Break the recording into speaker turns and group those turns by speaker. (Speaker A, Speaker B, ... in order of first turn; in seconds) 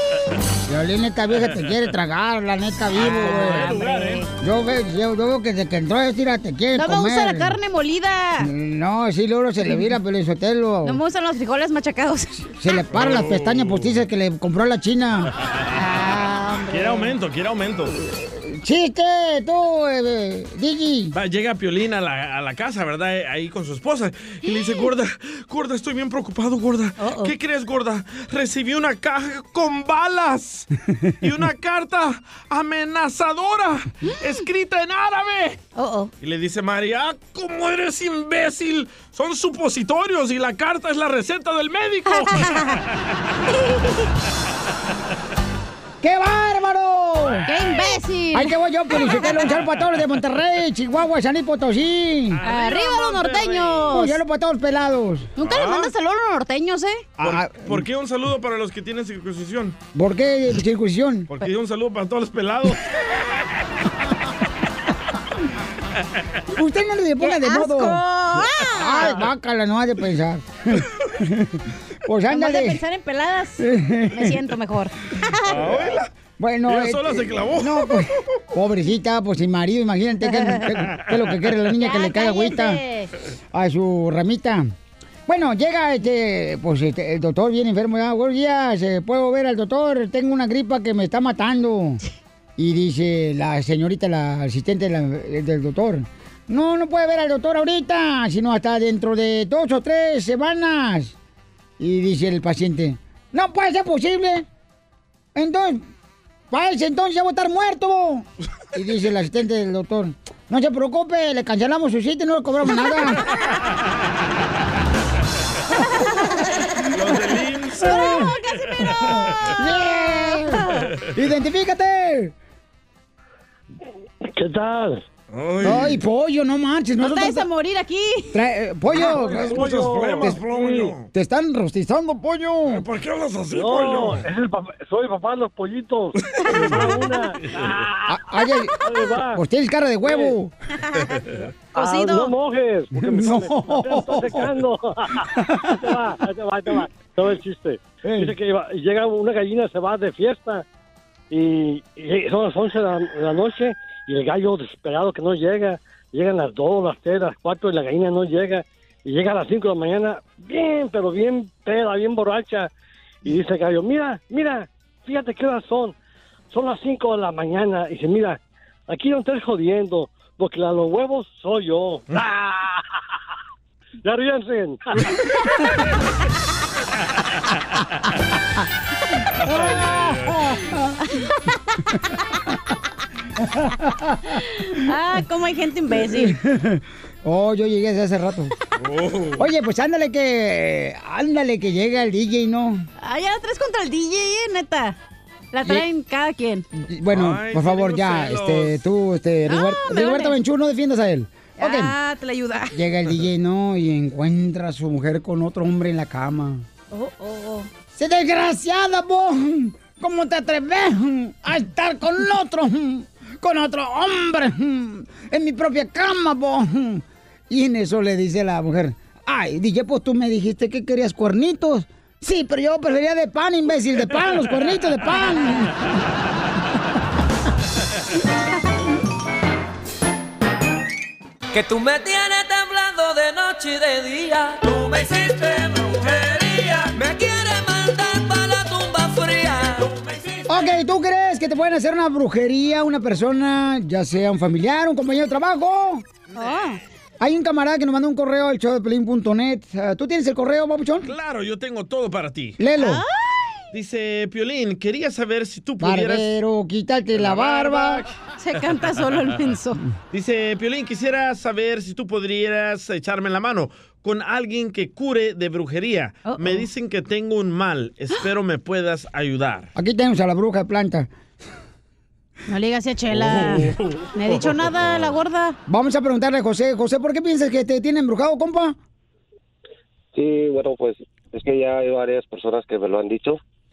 Speaker A: 0.7-3.8, 4.4-7.5, 8.4-11.0, 12.6-15.3, 18.0-21.1, 46.0-47.5, 48.3-52.4, 53.9-55.3, 57.2-57.8, 59.9-61.3, 66.5-68.0, 68.6-72.8, 73.6-74.4, 76.4-82.8, 83.5-84.7, 85.3-92.0, 92.6-101.1, 101.8-104.5, 105.3-105.9, 106.5-113.2, 119.5-122.3, 125.6-127.5, 128.3-130.4, 131.1-132.8, 138.1-138.8, 139.3-140.5, 143.0-144.5, 145.4-145.7, 148.0-148.3, 179.7-180.9, 183.7-184.1, 186.0-188.5, 189.4-192.8, 196.7-201.9, 202.7-206.7, 207.9-225.8, 240.5-246.0, 247.2-251.1, 252.6-253.0, 255.8-258.1, 269.8-271.1, 275.7-278.8
Speaker B: 3.0-4.2, 12.9-14.0, 16.7-17.9, 21.1-30.7, 31.2-35.6, 36.2-42.6, 52.3-54.0, 55.4-55.9, 57.2-59.8, 61.3-62.9, 75.4-76.1, 76.6-78.0, 116.9-119.3, 125.3-126.0, 128.9-131.1, 132.7-134.2, 136.5-136.8, 137.4-137.7, 179.4-180.4, 188.8-189.5, 197.1-198.8, 246.3-246.7, 251.0-252.6, 253.7-256.3, 257.1-258.1, 260.1-269.7, 273.1-275.2
Speaker C: 3.0-4.2, 6.7-8.5, 10.8-12.5, 15.8-17.1, 24.5-24.7, 27.0-27.3, 35.8-36.1, 47.5-49.4, 52.4-54.2, 55.4-57.1, 67.2-69.3, 72.3-75.6, 81.8-83.1, 117.9-118.4, 127.0-128.3, 141.8-142.3, 184.6-186.3, 193.0-194.9, 195.5-196.6, 199.5-200.3, 201.6-202.8, 206.9-207.7, 246.3-246.8, 252.8-253.5, 258.4-259.8, 266.2-266.6, 272.5-275.6
Speaker D: 124.3-125.0, 129.3-130.7, 133.5-138.1, 138.8-139.4, 140.1-140.3, 141.7-150.6, 151.3-162.7, 163.2-165.9, 166.5-172.6, 174.0-174.8
Speaker E: 231.5-240.1
Speaker F: 280.1-283.4